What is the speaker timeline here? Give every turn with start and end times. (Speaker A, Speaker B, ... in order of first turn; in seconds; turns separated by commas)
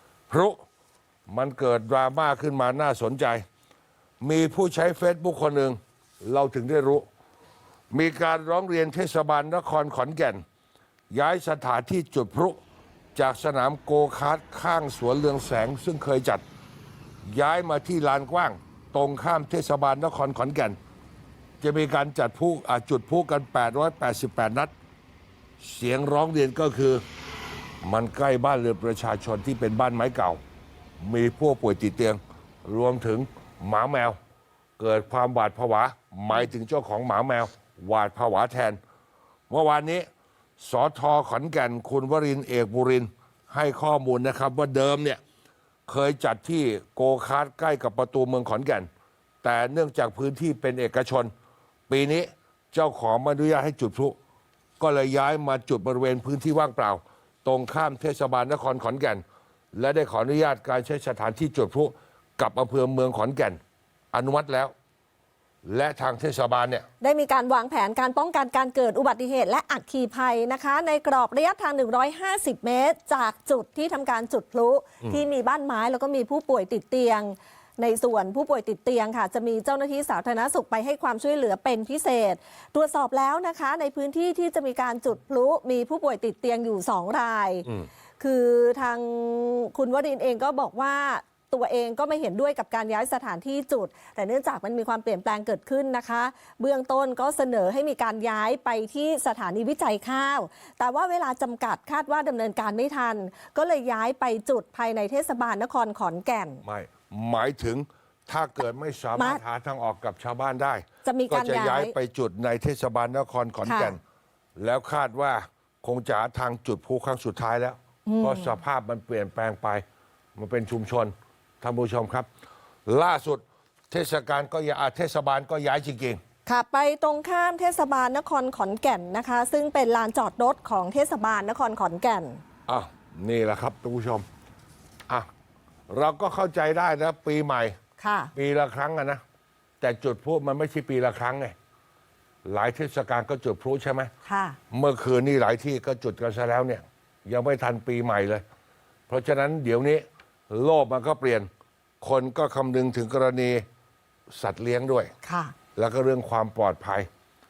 Speaker A: 0.3-0.6, Speaker A: 1.3-3.5, Speaker A: 4.2-7.1, Speaker A: 7.9-10.4, Speaker A: 11.1-12.6, Speaker A: 13.2-16.4, Speaker A: 17.2-20.8, Speaker A: 21.6-24.7, Speaker A: 25.6-27.0, Speaker A: 27.8-30.4, Speaker A: 31.0-34.2, Speaker A: 34.8-38.8, Speaker A: 39.5-40.1, Speaker A: 40.6-45.2, Speaker A: 45.9-48.9, Speaker A: 49.4-51.3, Speaker A: 51.9-54.2, Speaker A: 54.8-59.2, Speaker A: 59.7-63.6, Speaker A: 64.1-64.7, Speaker A: 65.7-66.9, Speaker B: 67.0-87.7, Speaker B: 88.2-106.6, Speaker A: 106.6-114.0, Speaker B: 109.2-109.4, Speaker B: 111.0-111.9, Speaker B: 113.7-114.0, Speaker A: 114.6-119.8, Speaker B: 118.1-118.5, Speaker A: 120.4-122.3, Speaker A: 122.9-126.2, Speaker B: 126.5-132.4, Speaker A: 132.7-134.3, Speaker A: 135.9-137.8, Speaker B: 138.0-138.3, Speaker A: 138.3-139.2, Speaker A: 139.8-141.6, Speaker A: 142.4-144.1, Speaker B: 144.2-144.6, Speaker A: 144.7-148.4, Speaker A: 149.1-151.5, Speaker A: 152.0-153.6, Speaker A: 154.3-155.1, Speaker B: 155.2-155.6, Speaker A: 155.8-157.1